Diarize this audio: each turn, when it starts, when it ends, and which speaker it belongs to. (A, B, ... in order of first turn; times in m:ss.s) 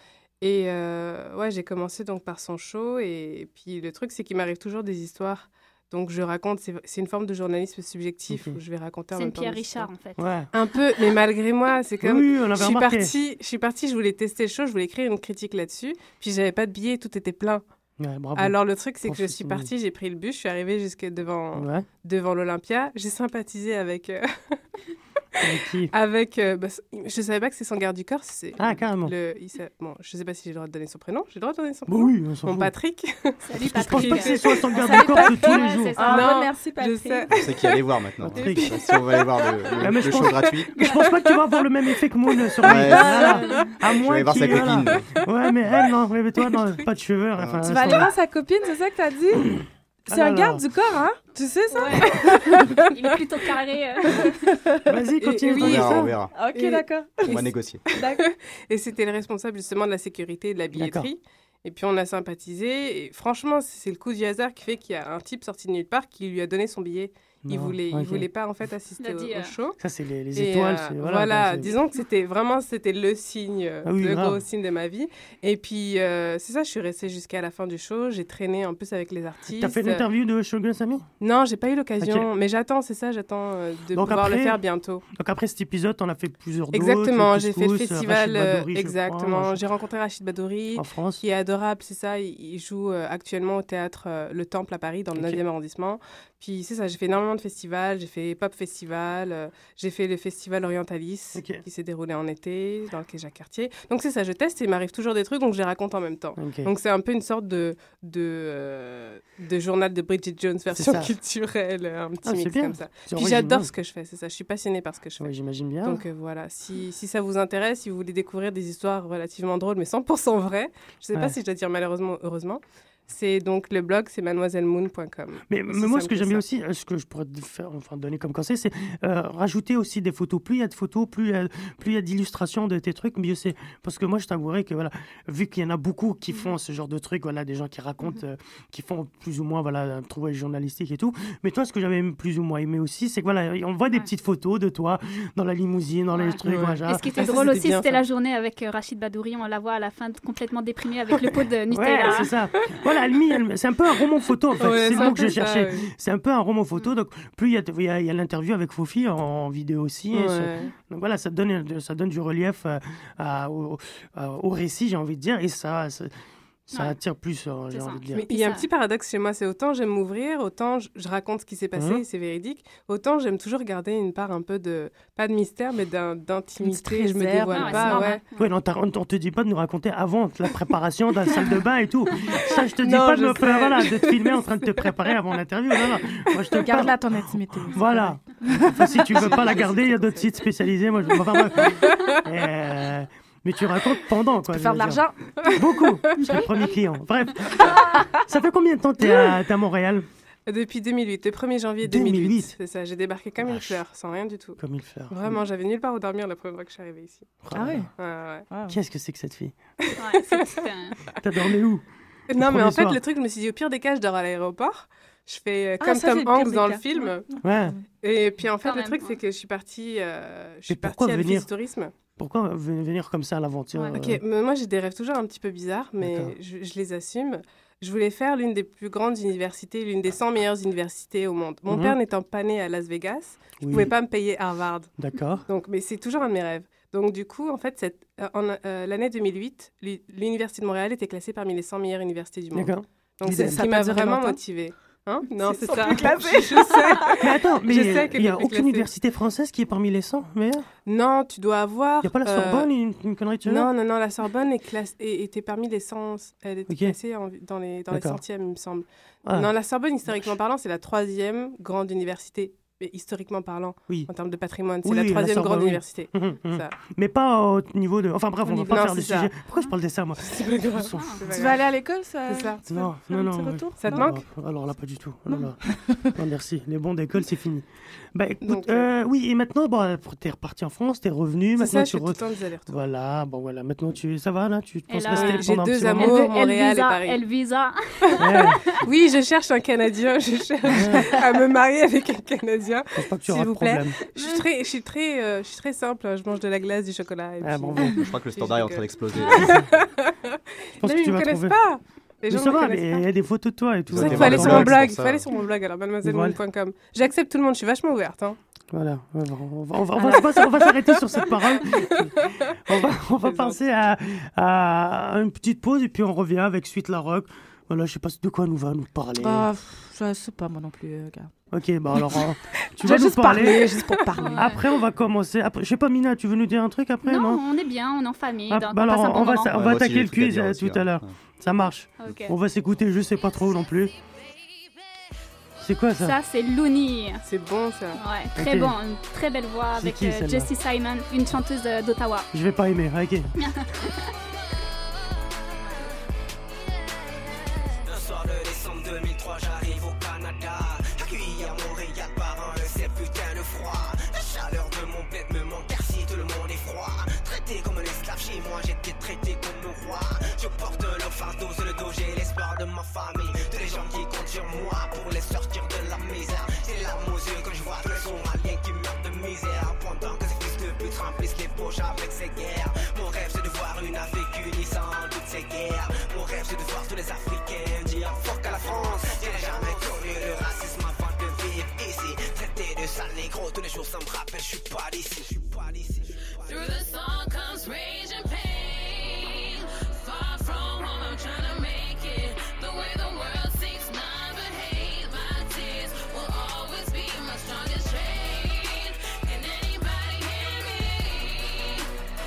0:00.4-0:09.9 A
0:08.3-0:08.6 B
0:09.1-0:10.3 C
0:10.2-0:10.5 B
0:10.5-0:17.6 A
0:12.0-0:13.1 B
0:18.0-0:19.7 B
0:18.4-0:24.6 A
0:21.6-0:21.9 B
0:25.4-0:34.6 A
0:25.4-0:25.9 B
0:28.6-0:29.1 B
0:31.9-0:32.7 B
0:33.4-0:36.5 C
0:33.6-0:36.1 B
0:34.7-0:37.3 D
0:36.0-0:37.6 A
0:37.3-0:40.7 E
0:38.2-0:38.8 B
0:38.2-0:41.3 A
0:39.8-0:48.1 B
0:42.6-0:43.2 E
0:43.0-0:43.4 D
0:43.2-0:43.6 C
0:44.0-0:45.1 E
0:47.6-0:49.5 D
0:50.1-0:52.8 D
0:50.1-0:50.6 B
0:51.7-0:54.4 C
0:54.6-0:54.9 D
0:54.9-0:56.2 B
0:55.2-1:09.8 A
0:55.6-0:56.3 E
0:56.3-0:58.3 D
0:57.3-0:57.8 E
1:00.8-1:01.1 B
1:07.4-1:08.3 B
1:09.0-1:09.6 C
1:09.8-1:11.8 B
1:10.4-1:20.0 A
1:13.9-1:14.4 B
1:19.6-1:21.1 B
1:21.2-1:25.0 A
1:22.0-1:22.3 B
1:23.9-1:24.6 B
1:25.1-1:29.6 B
1:26.7-1:55.3 A
1:30.8-1:31.2 B
1:41.4-1:41.6 B
1:46.4-1:46.7 B
1:50.7-1:51.1 B
1:52.2-1:53.7 B
1:55.2-1:56.0 B
1:55.8-2:06.4 A
2:05.5-2:27.1 B
2:26.1-2:32.3 C
2:26.4-2:28.0 A
2:31.7-2:46.1 B
2:34.6-2:35.9 A
2:34.9-2:35.3 C
2:40.1-2:40.7 A
2:46.7-2:48.3 B
2:46.7-2:47.0 C
2:47.7-2:48.7 C
2:48.1-2:58.2 A
2:56.6-2:58.2 D
2:57.5-2:58.5 C
2:58.4-3:07.2 B
3:02.8-3:05.0 A
3:06.6-3:09.6 D
3:07.7-3:20.1 B
3:09.1-3:10.3 A
3:11.6-3:12.2 A
3:14.5-3:15.5 D
3:17.8-3:18.2 D
3:20.5-3:24.6 A
3:21.9-3:22.6 B
3:23.4-3:23.8 B
3:24.6-3:25.4 B
3:25.1-3:27.4 A
3:27.4-3:27.9 B
3:27.5-3:27.9 D
3:28.0-3:28.5 A
3:28.5-3:28.8 D
3:28.7-3:29.6 B
3:30.0-3:31.0 C
3:31.2-3:31.8 B
3:32.3-3:37.2 A
3:32.4-3:33.0 B
3:35.8-3:37.9 D
3:37.4-3:37.8 B
3:38.0-3:42.0 A
3:38.6-3:39.2 C
3:40.7-3:41.5 B
3:42.2-3:44.2 B
3:44.0-3:54.9 A
3:46.0-3:46.3 B
3:51.7-3:51.9 B
3:53.6-3:53.9 B
3:55.0-3:55.5 B
3:55.5-4:08.9 A
4:02.6-4:03.8 B
4:03.2-4:04.4 D
4:05.3-4:07.3 D
4:07.2-4:10.7 B
4:10.9-4:12.7 A
4:12.0-4:13.7 B
4:13.4-4:26.7 A
4:16.7-4:17.0 B
4:17.9-4:18.2 B
4:19.2-4:19.5 B
4:24.8-4:31.2 B
4:28.5-4:28.8 D
4:28.6-4:29.3 A
4:30.2-4:31.7 A
4:30.9-4:31.2 C
4:31.3-4:34.2 D
4:32.3-4:32.7 A
4:32.7-4:35.6 B
4:33.8-4:34.2 A
4:35.3-4:36.1 D
4:36.2-4:46.1 B
4:38.4-4:38.9 A
4:41.6-4:42.8 A
4:44.9-4:48.7 C
4:45.1-4:47.2 A
4:48.2-4:48.6 B
4:48.8-5:03.1 A
4:50.7-4:51.1 B
4:53.0-4:54.0 B
4:57.4-4:58.0 B
4:58.0-4:59.6 E
4:59.2-4:59.4 C
4:59.3-4:59.7 B
5:00.8-5:01.6 B
5:02.3-5:05.1 B
5:03.9-5:05.3 E
5:03.9-5:08.4 A
5:06.0-5:06.4 B
5:08.7-5:19.5 B
5:11.1-5:13.6 A
5:19.2-5:21.3 D
5:21.5-5:23.8 B
5:21.9-5:22.3 D
5:22.8-5:24.5 D
5:24.2-5:24.6 C
5:24.4-5:27.4 B
5:27.0-5:29.6 C
5:28.5-5:33.9 B
5:29.5-5:31.1 E
5:32.0-5:32.3 C
5:35.6-5:36.2 B
5:36.0-5:37.2 C
5:37.2-5:38.0 A
5:38.0-5:42.3 C
5:38.4-5:38.8 B
5:39.8-5:40.5 B
5:42.3-5:43.3 B
5:43.4-5:44.0 C
5:47.8-6:26.1 F
6:19.2-6:19.5 G
6:26.4-6:41.9 G